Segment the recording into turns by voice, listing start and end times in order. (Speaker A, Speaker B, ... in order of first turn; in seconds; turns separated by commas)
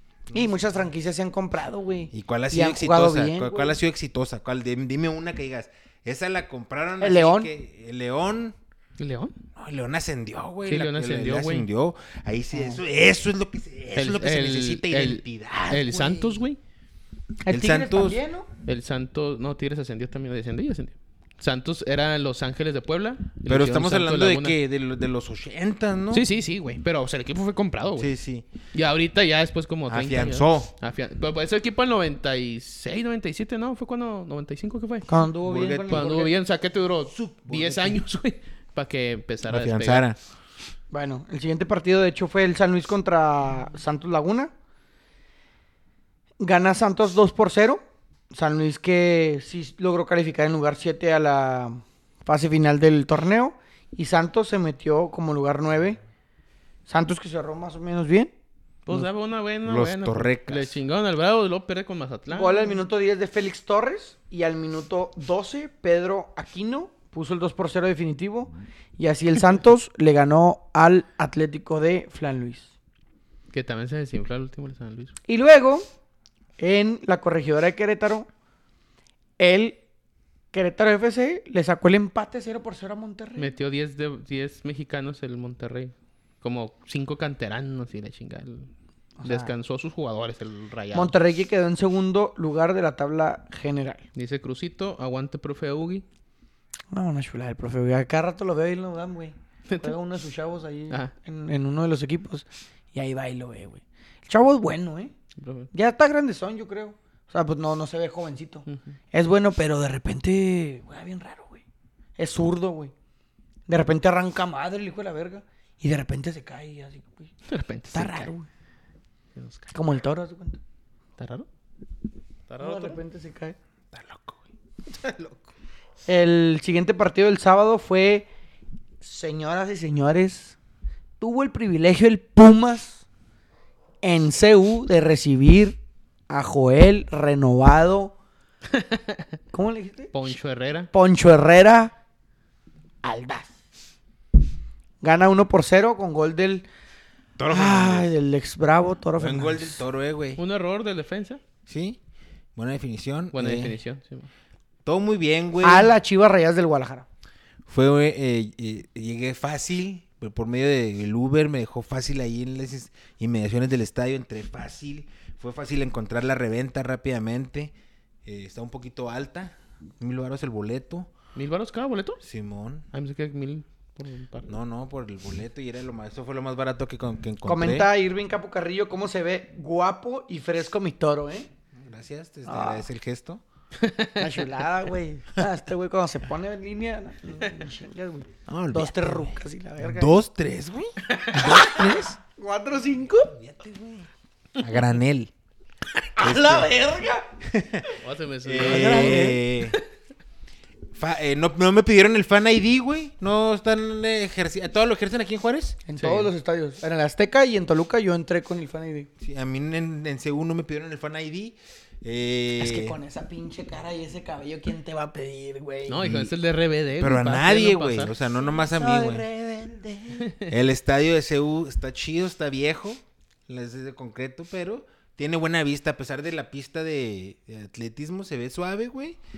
Speaker A: 0.3-3.8, Speaker B: 2.1-8.6, Speaker A: 7.0-7.5, Speaker C: 9.0-9.4, Speaker B: 9.6-16.4, Speaker C: 10.6-11.7, Speaker A: 12.5-12.8, Speaker C: 13.9-16.6, Speaker A: 17.5-18.5, Speaker B: 17.5-18.2, Speaker C: 18.6-24.6, Speaker B: 23.5-26.3, Speaker C: 26.1-28.1, Speaker B: 28.0-28.5, Speaker C: 28.7-35.1, Speaker B: 29.9-30.7, Speaker A: 35.1-36.3, Speaker B: 35.4-36.1, Speaker C: 35.9-40.0, Speaker B: 37.1-38.0, Speaker B: 39.5-40.2, Speaker A: 40.9-44.5, Speaker A: 46.4-56.0, Speaker A: 56.9-58.3, Speaker C: 58.9-62.8, Speaker B: 59.6-60.8, Speaker A: 62.3-72.7, Speaker C: 73.5-75.1, Speaker A: 75.3-75.9, Speaker A: 76.6-78.3, Speaker A: 79.4-79.8, Speaker A: 80.5-83.5, Speaker C: 83.4-88.7, Speaker A: 89.2-89.5, Speaker C: 89.2-91.1, Speaker A: 90.9-94.0, Speaker C: 94.2-96.0, Speaker A: 96.9-105.1, Speaker C: 99.7-100.0, Speaker C: 105.4-105.7, Speaker A: 105.7-111.6, Speaker C: 108.7-108.9, Speaker A: 112.2-112.9, Speaker A: 113.7-117.3, Speaker C: 117.5-118.3, Speaker A: 117.9-118.5, Speaker C: 119.3-119.7, Speaker A: 119.7-120.6, Speaker C: 121.2-121.5, Speaker C: 122.5-123.0, Speaker A: 122.6-123.6, Speaker B: 123.9-125.4, Speaker A: 126.1-128.3, Speaker A: 129.0-130.6, Speaker A: 131.2-133.0, Speaker A: 134.0-135.8, Speaker A: 136.3-138.2, Speaker C: 138.7-139.3, Speaker A: 139.5-140.1, Speaker C: 140.1-140.9, Speaker A: 140.9-141.9, Speaker A: 143.0-143.5, Speaker A: 145.0-146.7, Speaker B: 147.4-148.1, Speaker A: 147.5-149.8, Speaker B: 149.2-150.4, Speaker C: 150.4-151.4, Speaker B: 151.7-152.0, Speaker B: 152.6-153.8, Speaker C: 153.3-154.3, Speaker B: 154.8-155.9, Speaker A: 155.6-157.1, Speaker B: 157.7-167.7, Speaker B: 168.2-171.1, Speaker C: 171.3-172.2, Speaker B: 172.2-172.9, Speaker C: 172.9-174.5, Speaker B: 174.5-177.9, Speaker A: 177.4-181.5, Speaker B: 181.8-183.4, Speaker A: 182.5-182.9, Speaker C: 183.8-184.4, Speaker A: 184.2-190.1, Speaker B: 188.5-192.2, Speaker C: 191.1-191.8, Speaker A: 191.4-193.3, Speaker B: 193.3-195.3, Speaker A: 196.2-197.3, Speaker B: 196.2-196.7, Speaker B: 197.5-197.9, Speaker C: 198.0-199.4, Speaker B: 198.4-199.8, Speaker A: 198.6-199.4, Speaker B: 200.9-205.8, Speaker A: 205.9-209.1, Speaker C: 206.0-206.3, Speaker B: 209.2-213.0, Speaker A: 212.6-216.1, Speaker C: 215.9-218.1, Speaker B: 216.0-216.3, Speaker B: 217.0-229.2, Speaker A: 218.5-220.0, Speaker C: 220.2-220.5